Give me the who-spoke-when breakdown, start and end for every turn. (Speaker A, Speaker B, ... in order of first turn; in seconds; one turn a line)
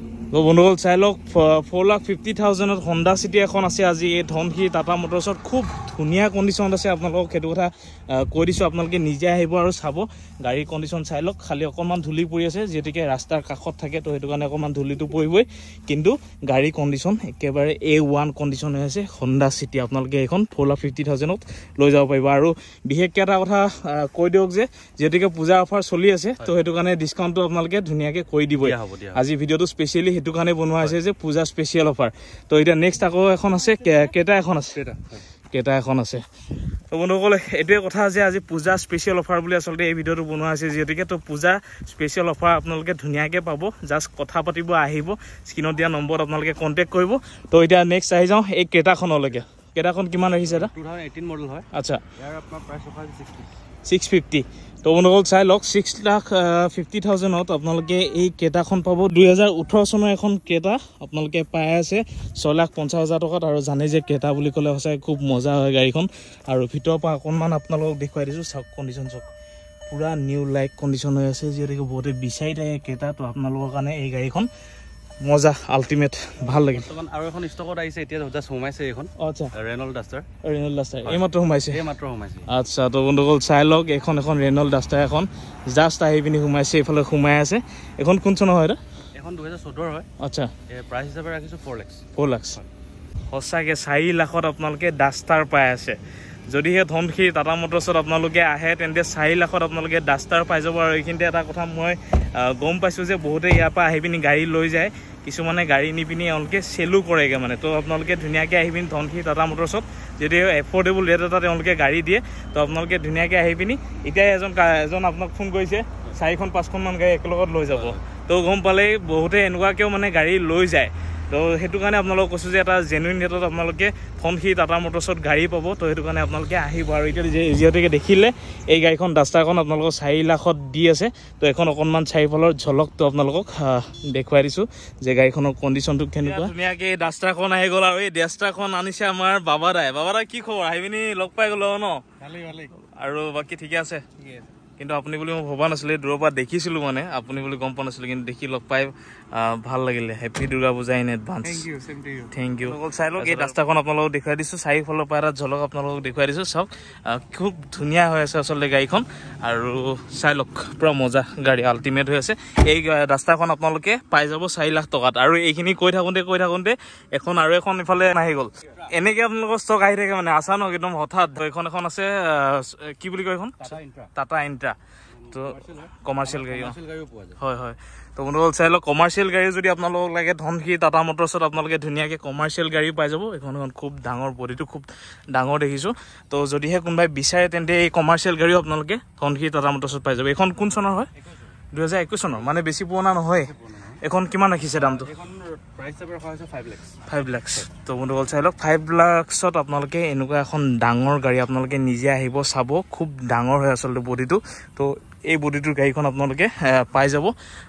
Speaker A: 0.3-34.8
Speaker B: 28.6-29.2
Speaker B: 34.7-35.2
Speaker A: 35.5-36.2
Speaker A: 36.9-50.7
Speaker B: 50.4-53.5
Speaker A: 51.7-52.0
Speaker A: 53.9-69.3
Speaker A: 69.9-74.5
Speaker A: 75.2-76.9
Speaker B: 76.4-80.3
Speaker A: 79.2-79.5
Speaker A: 80.4-81.8
Speaker B: 81.0-82.5
Speaker A: 82.5-88.8
Speaker B: 89.1-90.1
Speaker A: 90.2-90.5
Speaker B: 90.7-92.7
Speaker A: 92.1-92.6
Speaker A: 93.3-96.0
Speaker A: 96.5-142.0
Speaker B: 117.7-118.0
Speaker B: 136.2-136.5
Speaker B: 142.2-142.7
Speaker A: 142.8-144.1
Speaker B: 144.2-144.5
Speaker A: 144.8-151.7
Speaker B: 151.4-153.5
Speaker A: 152.3-174.8
Speaker B: 173.6-174.1
Speaker B: 175.1-177.4
Speaker A: 175.3-176.8
Speaker A: 177.4-191.1
Speaker B: 191.1-191.6
Speaker A: 191.7-195.1
Speaker B: 193.4-194.0
Speaker B: 194.7-197.0
Speaker A: 197.1-207.3